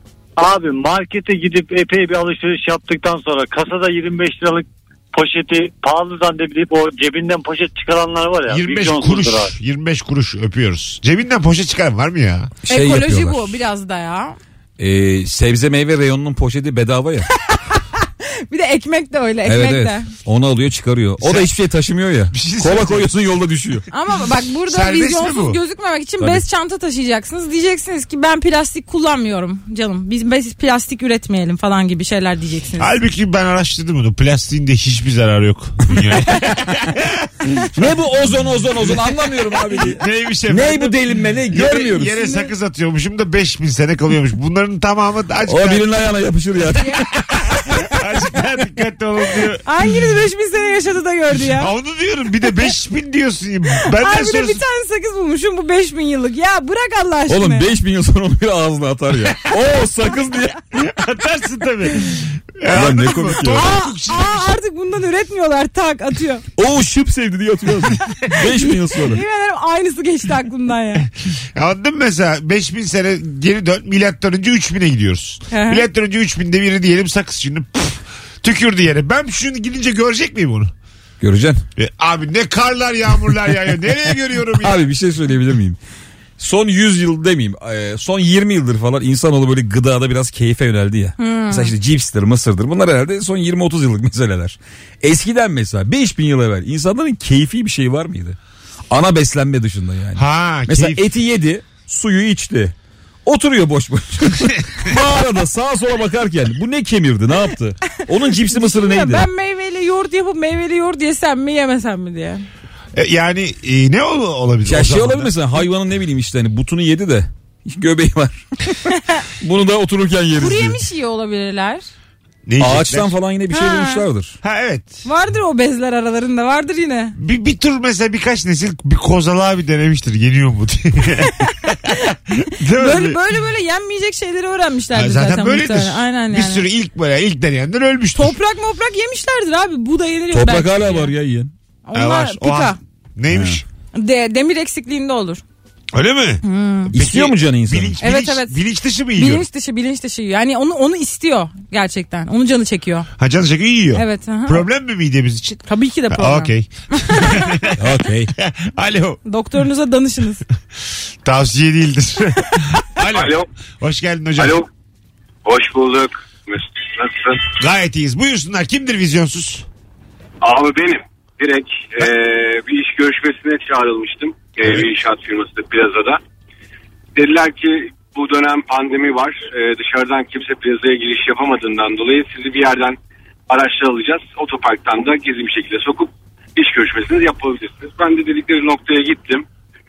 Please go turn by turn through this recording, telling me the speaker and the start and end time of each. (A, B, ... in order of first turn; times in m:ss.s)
0:00.4-0:09.5 A
0:08.5-0:12.5 B
0:12.6-0:13.6 C
0:12.7-0:14.4 D
0:14.8-0:17.3 C
0:17.4-0:20.1 D
0:19.4-0:23.8 C
0:21.2-0:21.5 B
0:22.3-0:23.1 B
0:23.9-0:32.9 D
0:24.6-0:25.6 B
0:32.8-0:38.0 B
0:37.6-0:42.3 C
0:39.7-0:45.8 B
0:45.4-0:47.1 C
0:46.9-0:49.6 B
0:49.6-0:51.7 D
0:51.4-0:54.6 B
0:53.8-0:57.7 D
0:57.3-1:00.6 C
1:00.7-1:04.5 B
1:02.7-1:03.6 C
1:03.4-1:06.4 D
1:06.6-1:09.2 C
1:08.3-1:11.1 D
1:11.5-1:20.7 B
1:15.5-1:15.8 D
1:21.2-1:21.6 C
1:21.8-1:24.8 B
1:24.6-1:25.8 C
1:26.4-1:38.4 C
1:31.2-1:31.7 D
1:38.9-1:42.7 C
1:40.1-1:41.0 B
1:43.2-1:49.3 C
1:48.5-1:52.4 D
1:52.9-1:55.3 B
1:54.6-1:58.4 C
1:58.9-1:59.2 D
1:59.4-2:00.8 C
2:00.4-2:01.8 D
2:02.4-2:03.1 B
2:02.6-2:04.4 C
2:03.5-2:04.0 D
2:04.4-2:05.0 B
2:05.0-2:07.1 D
2:07.2-2:13.2 B
2:11.4-2:12.1 D
2:12.7-2:16.6 D
2:14.9-2:18.4 B
2:18.1-2:21.1 D
2:20.3-2:21.5 C
2:21.9-2:22.8 D
2:21.9-2:23.6 B
2:23.3-2:23.6 C
2:23.9-2:25.4 D
2:25.9-2:29.4 B
2:26.4-2:26.9 D
2:26.9-2:28.0 C
2:28.0-2:28.6 D
2:29.2-2:33.1 D
2:33.2-2:39.2 B
2:33.9-2:34.6 D
2:35.6-2:37.5 D
2:37.8-2:38.3 C
2:39.2-2:40.4 D
2:41.2-2:44.6 B
2:43.0-2:43.5 E
2:44.4-2:44.7 E
2:45.4-2:47.5 E
2:47.6-2:49.6 B
2:50.4-2:56.2 E
2:57.2-3:03.0 E
3:03.5-3:09.4 E